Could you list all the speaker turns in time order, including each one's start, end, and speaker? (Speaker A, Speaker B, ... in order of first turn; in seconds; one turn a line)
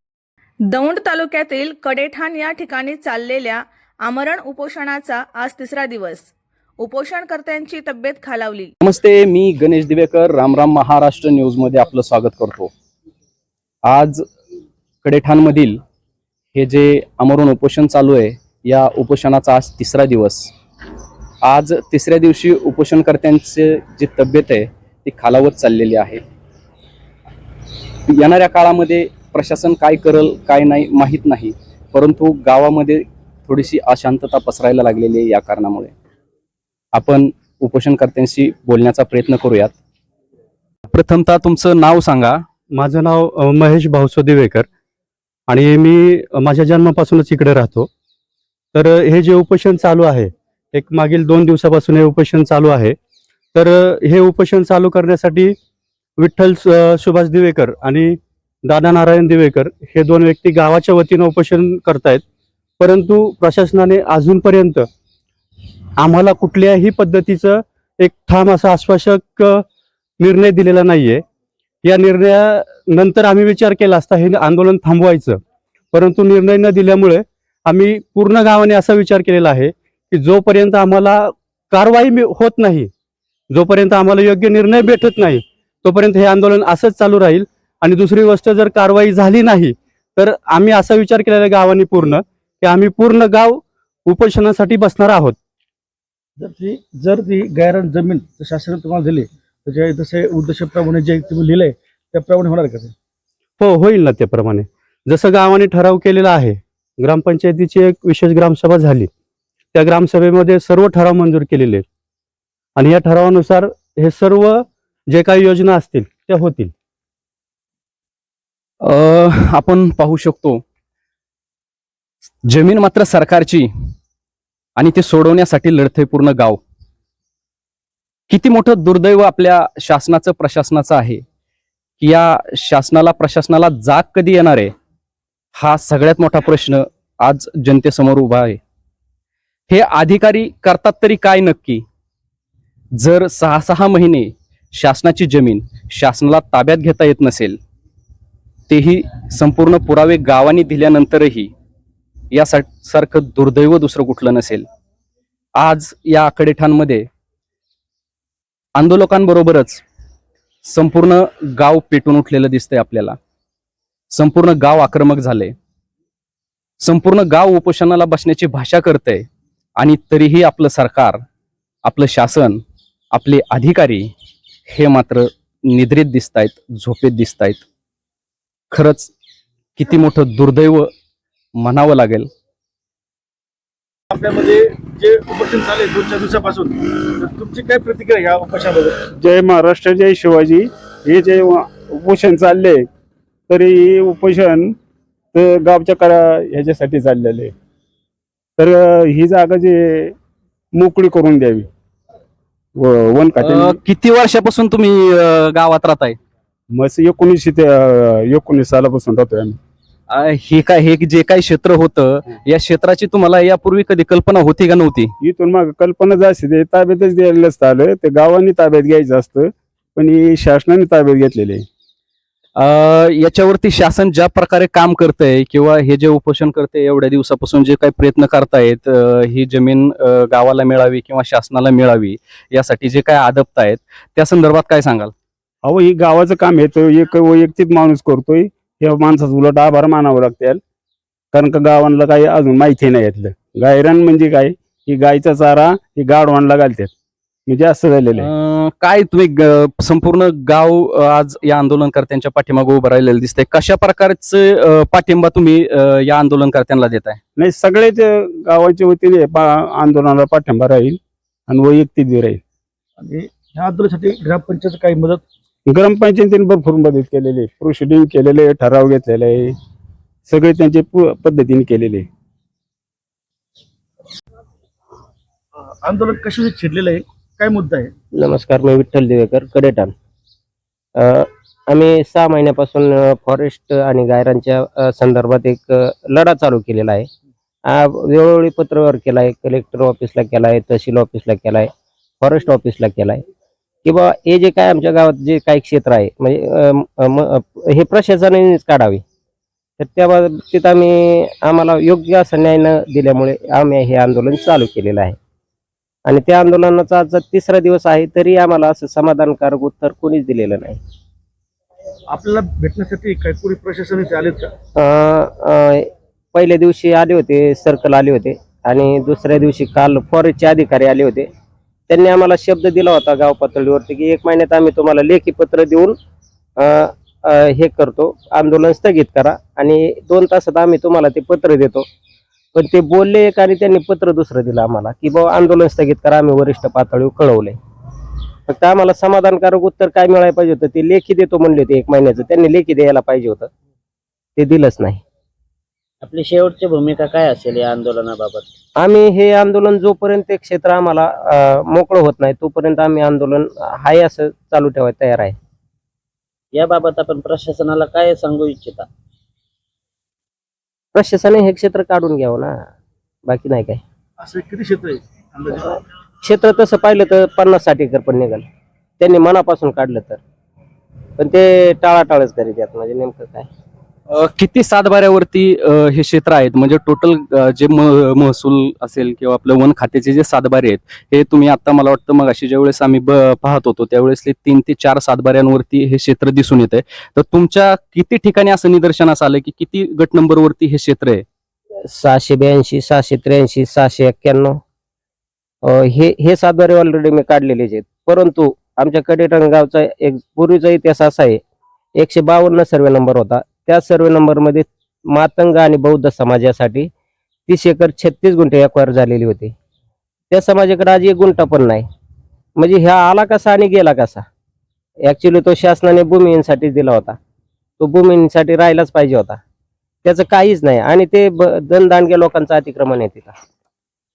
Speaker A: 0.7-8.7
Speaker B: 8.8-12.7
Speaker B: 13.8-14.2
Speaker B: 15.0-15.8
Speaker B: 16.5-20.5
Speaker B: 21.4-26.2
Speaker B: 28.1-35.9
Speaker B: 36.9-39.8
Speaker B: 40.9-42.4
Speaker C: 42.7-44.7
Speaker C: 45.5-47.9
Speaker C: 48.7-53.0
Speaker C: 53.5-55.5
Speaker C: 56.2-62.2
Speaker C: 62.8-64.9
Speaker C: 66.0-69.7
Speaker C: 70.2-71.2
Speaker C: 71.8-75.4
Speaker C: 75.9-82.9
Speaker C: 83.5-95.4
Speaker D: 96.4-102.9
Speaker C: 103.6-109.1
Speaker C: 109.7-111.8
Speaker C: 112.8-116.7
Speaker B: 118.8-120.6
Speaker B: 122.4-123.7
Speaker B: 124.8-126.6
Speaker B: 128.3-131.2
Speaker B: 132.0-134.7
Speaker B: 135.6-138.6
Speaker B: 139.7-141.8
Speaker B: 143.0-147.6
Speaker B: 148.7-151.5
Speaker B: 152.3-154.7
Speaker B: 155.6-157.1
Speaker B: 158.8-159.8
Speaker B: 160.6-163.2
Speaker B: 164.1-165.5
Speaker B: 166.8-169.2
Speaker B: 169.8-171.2
Speaker B: 171.8-172.6
Speaker B: 173.1-174.1
Speaker B: 174.7-177.6
Speaker B: 178.7-179.1
Speaker B: 179.8-180.9
Speaker B: 181.6-182.3
Speaker D: 184.1-189.0
Speaker E: 189.2-192.8
Speaker E: 193.5-194.8
Speaker E: 195.3-197.5
Speaker E: 198.6-200.1
Speaker E: 200.7-201.7
Speaker E: 202.8-203.8
Speaker B: 203.4-206.2
Speaker E: 206.7-209.6
Speaker B: 210.1-215.1
Speaker E: 215.2-221.7
Speaker B: 222.6-235.1
Speaker E: 235.6-240.6
Speaker E: 241.3-246.9
Speaker E: 247.5-248.3
Speaker B: 248.2-257.2
Speaker E: 257.4-262.4
Speaker D: 263.0-265.2
Speaker E: 265.7-269.6
Speaker E: 270.3-272.1
Speaker D: 275.6-277.9
Speaker F: 278.2-279.9
Speaker F: 281.0-287.1
Speaker F: 287.7-291.7
Speaker F: 292.2-293.2
Speaker F: 293.9-299.0
Speaker F: 299.8-305.2
Speaker F: 306.1-310.8
Speaker D: 312.1-314.5
Speaker F: 314.8-321.3
Speaker F: 321.9-325.9
Speaker F: 326.6-331.9
Speaker F: 332.5-337.6
Speaker F: 338.5-343.5
Speaker F: 344.4-345.0
Speaker G: 346.0-348.4
Speaker F: 348.8-355.4
Speaker G: 356.6-358.9
Speaker F: 360.9-362.6
Speaker F: 363.3-363.8
Speaker D: 364.2-365.8
Speaker F: 366.2-368.4
Speaker F: 369.0-370.2
Speaker F: 371.2-373.5
Speaker B: 374.1-391.2
Speaker F: 391.9-394.6
Speaker F: 395.7-401.4
Speaker F: 402.0-406.9
Speaker F: 407.5-409.5
Speaker F: 410.3-411.9
Speaker F: 412.6-414.2
Speaker F: 415.1-417.2
Speaker F: 417.8-419.4
Speaker F: 420.0-423.3